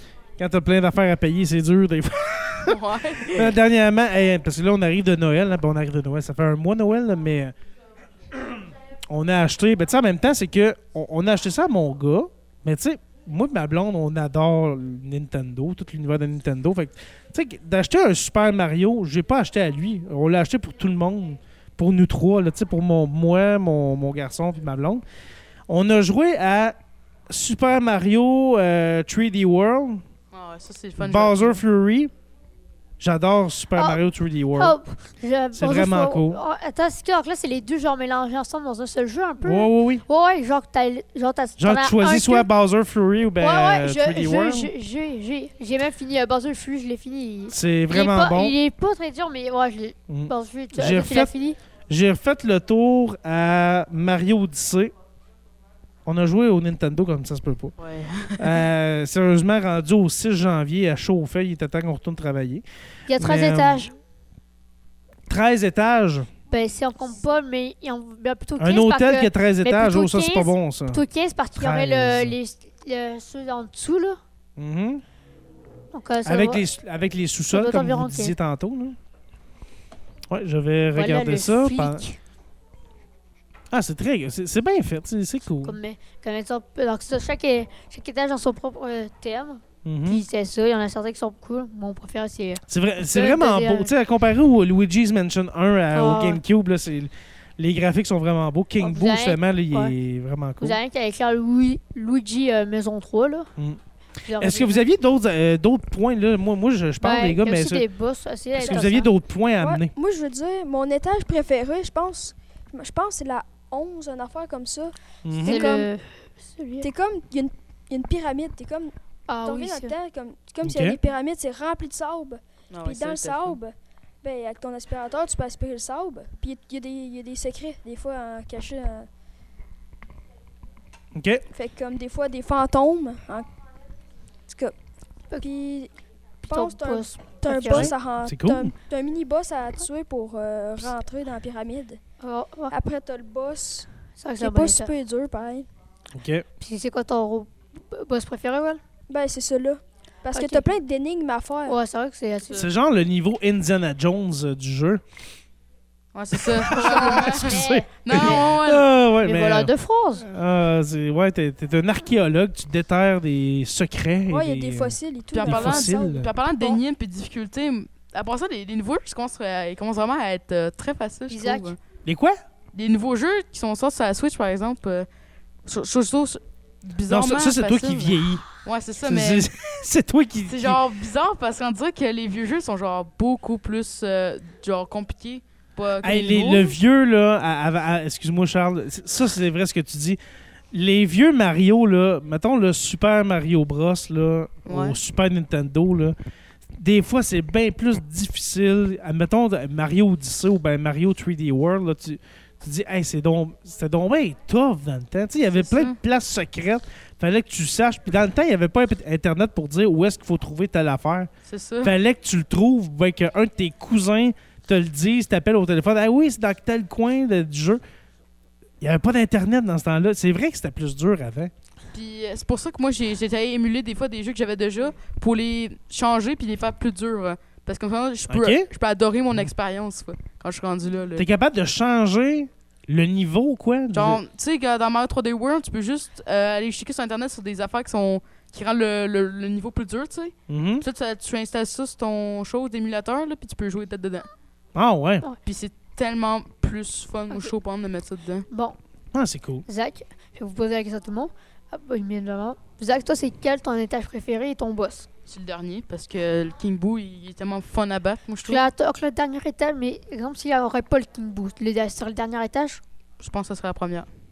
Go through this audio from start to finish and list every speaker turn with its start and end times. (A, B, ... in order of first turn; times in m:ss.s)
0:00.4-0:07.5 A
0:02.6-0:03.6 B
0:08.3-0:25.0 A
0:25.7-0:26.8 A
0:27.3-0:30.0 A
0:30.3-0:31.6 B
0:31.0-0:32.1 A
0:33.0-0:34.7 A
0:33.7-0:34.0 C
0:34.6-0:42.5 C
0:35.5-0:36.4 A
0:39.4-0:40.0 A
0:41.6-0:44.7 A
0:43.4-0:51.6 C
0:47.5-0:48.5 A
0:50.1-0:51.3 A
0:51.9-0:54.9 A
0:56.0-0:57.7 A
0:57.8-0:58.6 B
0:58.4-1:02.6 A
1:03.1-1:03.9 C
1:03.2-1:03.9 A
1:05.3-1:06.3 A
1:06.5-1:14.2 C
1:08.6-1:11.0 A
1:11.5-1:12.4 A
1:14.6-1:15.0 A
1:15.9-1:16.6 C
1:16.2-1:19.0 A
1:17.5-1:18.3 C
1:20.3-1:22.0 A
1:20.9-1:22.2 C
1:23.7-1:25.8 A
1:25.6-1:33.9 C
1:29.8-1:30.2 A
1:32.7-1:40.8 A
1:35.9-1:36.4 C
1:38.8-1:39.9 C
1:40.6-1:43.5 C
1:44.2-1:44.8 C
1:44.4-1:47.8 A
1:47.0-1:49.1 C
1:48.5-1:49.9 A
1:49.6-1:55.9 D
1:55.2-1:55.7 A
1:55.4-1:56.9 C
1:56.8-2:09.1 D
1:59.3-1:59.9 C
2:00.6-2:01.0 A
2:02.7-2:03.6 B
2:11.1-2:11.4 A
2:11.5-2:13.5 D
2:14.5-2:14.7 D
2:15.4-2:15.9 D
2:16.4-2:17.9 C
2:16.5-2:22.0 D
2:17.7-2:18.7 A
2:22.2-2:22.7 C
2:22.7-2:23.9 D
2:24.2-2:24.9 C
2:24.4-2:25.7 D
2:26.1-2:26.4 A
2:26.6-2:28.8 C
2:29.1-2:31.8 D
2:30.3-2:30.7 C
2:31.6-2:32.7 C
2:32.6-2:35.0 A
2:36.1-2:38.9 B
2:36.3-2:46.3 A
2:36.7-2:38.4 C
2:39.2-2:40.2 C
2:44.3-2:46.8 D
2:45.3-2:51.8 B
2:51.3-2:51.7 C
2:52.0-2:52.4 A
2:52.7-2:55.1 B
2:55.6-2:59.4 B
2:57.1-2:58.4 A
2:59.0-3:00.8 A
3:00.5-3:06.8 B
3:06.0-3:10.2 A
3:10.7-3:16.2 A
3:14.6-3:15.0 B
3:16.8-3:31.3 A
3:25.6-3:26.0 B
3:31.4-3:31.9 B
3:31.8-3:37.8 A
3:38.8-3:41.5 A
3:41.9-3:51.3 B
3:48.3-3:48.6 A
3:51.2-3:54.2 A
3:53.9-4:04.3 B
4:00.5-4:00.8 A
4:04.7-4:05.2 A
4:05.4-4:08.5 B
4:08.5-4:08.8 C
4:09.1-4:09.6 A
4:09.6-4:15.1 C
4:15.3-4:18.7 B
4:18.4-4:22.8 C
4:23.2-4:24.1 B